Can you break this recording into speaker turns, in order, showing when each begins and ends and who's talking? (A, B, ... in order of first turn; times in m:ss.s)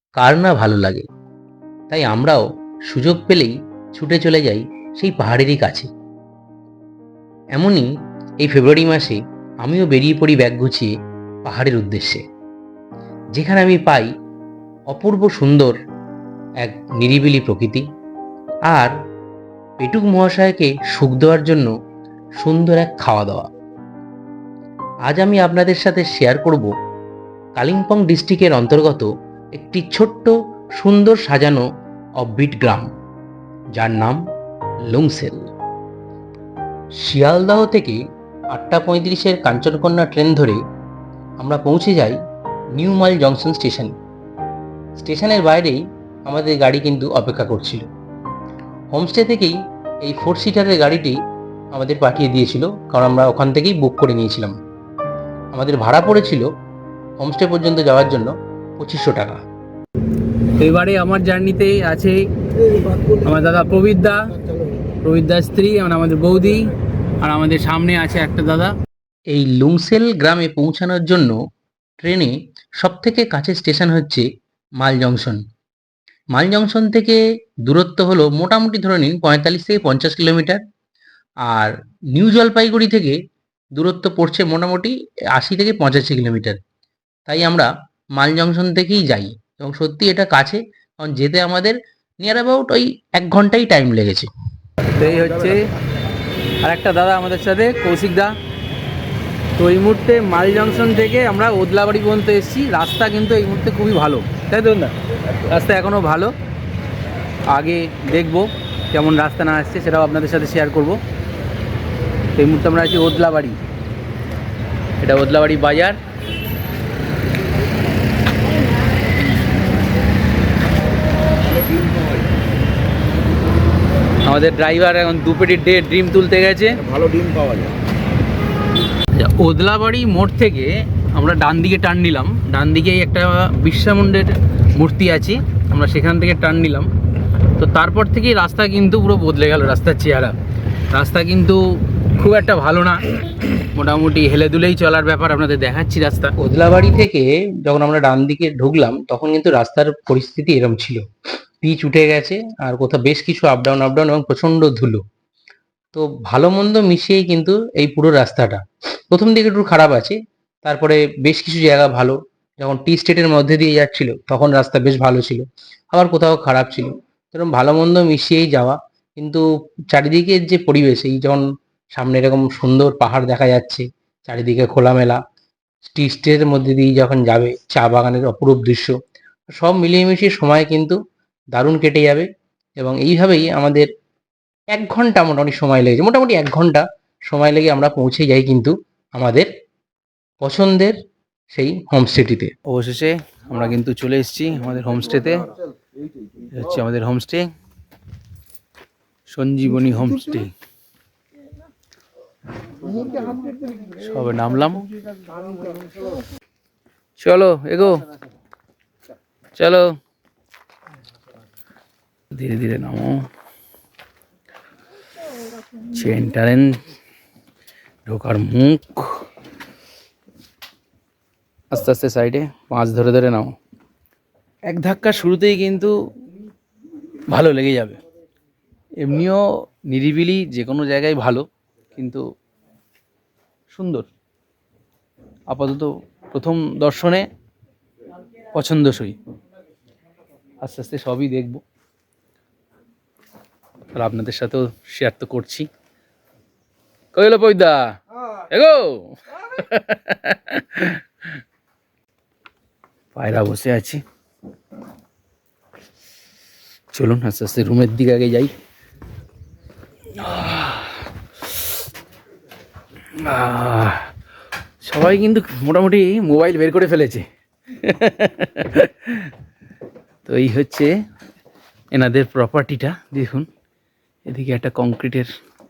0:00.2-0:01.0 A
0:01.9-0:05.9 A
0:07.5-0:07.9 A
0:08.4-0:10.9 A
0:11.4-0:12.2 A
0:13.3-0:14.1 A
0:14.9-0:15.8 A
0:16.6-0:17.8 A
0:18.7-0:18.9 A
0:19.8-0:21.7 A
0:22.4-0:23.5 A
0:25.0-0:26.7 A
0:27.6-0:31.6 A
0:32.2-0:32.9 A
0:33.7-0:34.2 A
0:34.8-0:35.5 A
0:37.0-0:38.0 A
0:38.5-0:40.6 A
0:41.4-0:42.2 A
0:42.7-0:43.9 A
0:45.0-0:47.8 A
0:48.9-0:51.2 A
0:51.7-0:54.6 A
0:55.5-0:56.5 A
0:57.2-0:59.4 A
1:00.6-1:02.3 B
1:03.2-1:04.3 B
1:05.0-1:08.7 B
1:09.3-1:11.4 A
1:12.0-1:15.4 A
1:16.3-1:20.6 A
1:21.4-1:23.2 A
1:23.8-1:26.6 A
1:27.3-1:34.3 A
1:35.0-1:35.7 B
1:36.6-1:38.3 B
1:39.6-1:44.9 B
1:45.4-1:46.3 B
1:47.4-1:51.0 B
1:52.4-1:53.6 B
1:55.0-1:56.0 B
2:01.4-2:02.4 C
2:04.2-2:06.8 B
2:06.7-2:07.8 C
2:09.1-2:16.9 B
2:17.6-2:20.3 B
2:20.9-2:26.3 B
2:26.4-2:31.0 A
2:31.6-2:35.0 A
2:35.9-2:55.2 A
2:55.8-2:58.9 A
2:59.6-3:01.0 A
3:01.5-3:02.3 A
3:02.8-3:03.9 A
3:04.7-3:09.5 A
3:10.4-3:11.0 A
3:11.5-3:12.5 A
3:12.6-3:15.4 B
3:15.5-3:16.5 C
3:16.5-3:17.5 B
3:19.3-3:20.5 B
3:22.8-3:24.3 C
3:24.1-3:24.8 B
3:24.9-3:26.2 C
3:27.2-3:28.0 B
3:29.6-3:30.0 B
3:32.3-3:33.3 B
3:35.8-3:36.8 B
3:38.1-3:39.2 B
3:41.7-3:43.5 B
3:44.7-3:45.9 B
3:47.3-3:48.0 B
3:49.0-3:52.2 B
3:53.7-3:54.1 B
3:55.5-3:57.2 B
3:58.5-3:59.2 B
4:00.6-4:01.6 B
4:03.9-4:05.7 B
4:07.1-4:11.4 B
4:13.1-4:14.0 B
4:16.9-4:18.5 B
4:20.1-4:21.1 B
4:23.2-4:24.1 B
4:24.8-4:29.3 B
4:30.2-4:30.9 B
4:31.9-4:33.5 B
4:34.2-4:35.3 B